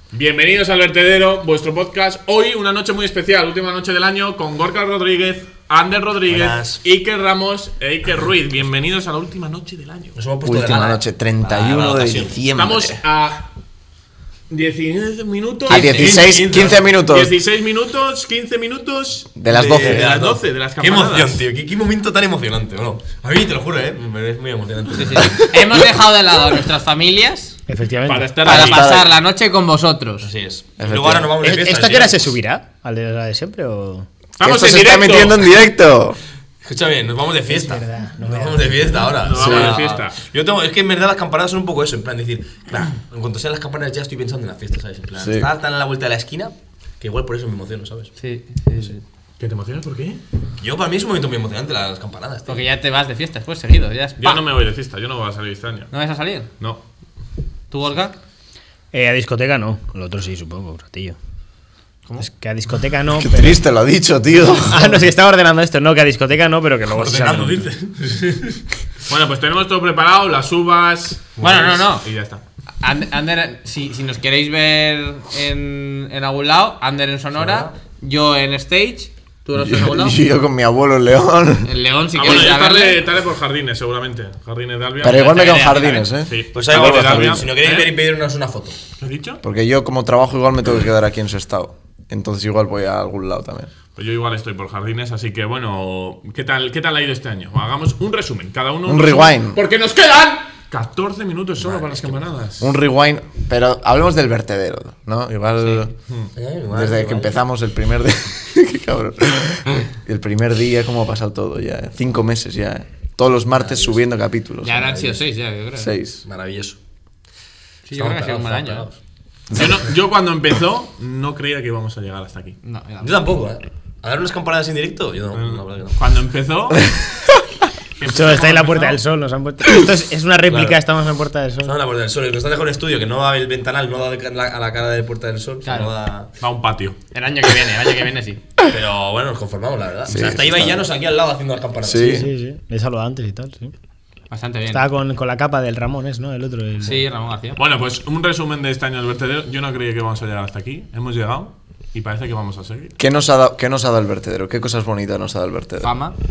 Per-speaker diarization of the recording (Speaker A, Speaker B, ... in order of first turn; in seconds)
Speaker A: 0.1-10.1, 12.5-13.5, 14.5-21.4, 28.1-29.0, 34.4-35.5, 39.2-40.2, 49.4-50.2, 54.2-55.9, 69.1-72.4, 82.1-88.0, 89.0-89.4, 94.0-102.8, 119.5-122.6, 125.3-127.0, 128.0-129.0, 136.4-137.0, 147.6-152.9
Speaker B: 6.3-6.8, 10.2-12.4, 16.2-16.7, 19.5-25.5, 30.2-32.3, 36.6-48.1, 50.6-52.7, 66.9-68.6, 77.3-77.8, 86.5-88.8, 101.6-102.2, 106.4-107.4, 113.5-114.0, 114.8-115.2, 116.2-116.8, 117.9-119.0, 123.0-126.0, 130.5-130.8, 131.6-136.3, 138.7-142.2
Speaker C: 10.4-13.0, 15.7-17.3, 19.4-20.1, 28.4-29.1, 30.8-31.3, 34.4-36.2, 39.4-39.7, 45.2-45.5, 63.1-65.1, 79.6-81.7, 85.0-87.5, 89.4-93.7, 98.8-99.6, 102.6-105.9, 106.7-114.8, 115.8-116.2, 140.1-140.8, 141.8-142.3, 153.0-155.9
Speaker D: 15.7-16.2, 24.9-27.6, 28.4-30.3, 48.2-49.0, 52.5-54.4, 55.9-56.5, 57.7-58.2, 71.4-72.1, 72.8-80.2, 81.6-83.0, 85.0-86.1, 105.6-105.9, 114.6-116.0, 117.9-118.9, 122.6-123.4, 135.6-136.0, 137.1-138.4, 144.3-144.9, 146.8-147.6, 155.8-156.2
Speaker E: 27.7-28.4, 31.4-34.1, 37.5-39.0, 58.9-61.2, 62.2-63.6, 64.7-67.7, 128.0-131.8, 142.0-143.7, 144.7-147.1